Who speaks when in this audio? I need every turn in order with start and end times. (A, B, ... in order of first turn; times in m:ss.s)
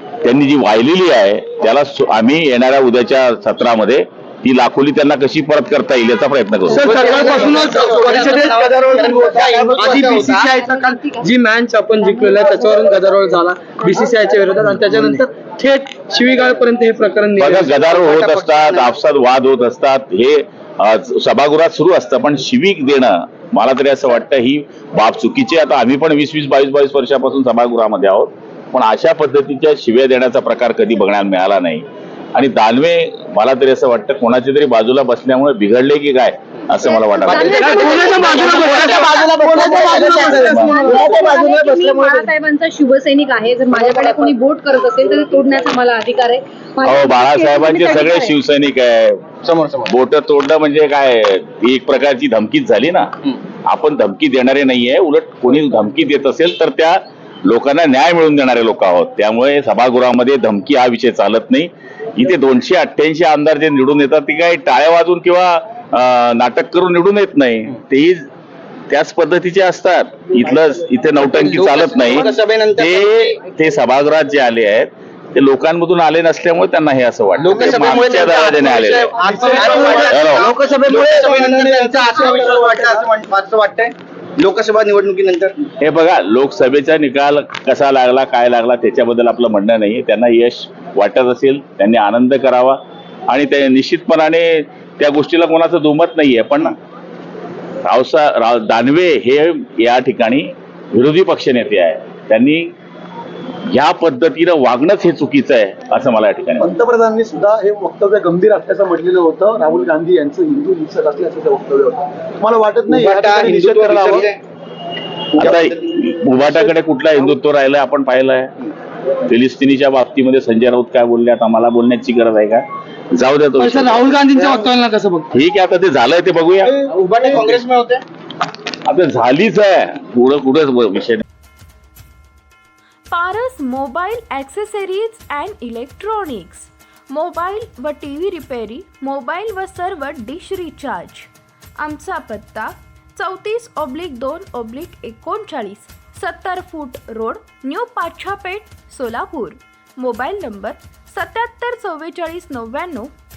0:00.2-0:06.9 A
0:06.7-0:09.2 B
0:06.8-0:10.5 C
0:09.2-0:09.5 D
0:09.7-0:17.9 B
0:17.4-0:37.9 A
0:17.6-0:18.9 C
0:37.2-0:48.3 E
0:37.3-0:42.3 C
0:37.4-0:41.0 B
0:43.7-0:44.3 C
0:46.8-0:53.1 A
0:49.4-0:49.9 C
0:53.7-1:08.3 A
1:08.9-1:19.2 A
1:11.2-1:13.4 C
1:17.4-1:25.6 C
1:17.8-1:18.6 D
1:19.2-1:23.1 D
1:19.4-1:20.1 B
1:20.0-1:20.6 A
1:25.8-1:36.8 A
1:37.8-1:42.7 A
1:43.7-1:46.7 A
1:46.6-1:54.3 D
1:52.9-1:54.4 C
1:55.4-1:55.8 C
1:55.4-1:58.5 A
1:59.3-2:04.2 A
2:03.6-2:05.3 B
2:04.4-2:04.6 C
2:05.3-2:06.7 A
2:06.6-2:08.0 C
2:08.9-2:11.2 A
2:13.1-2:33.1 F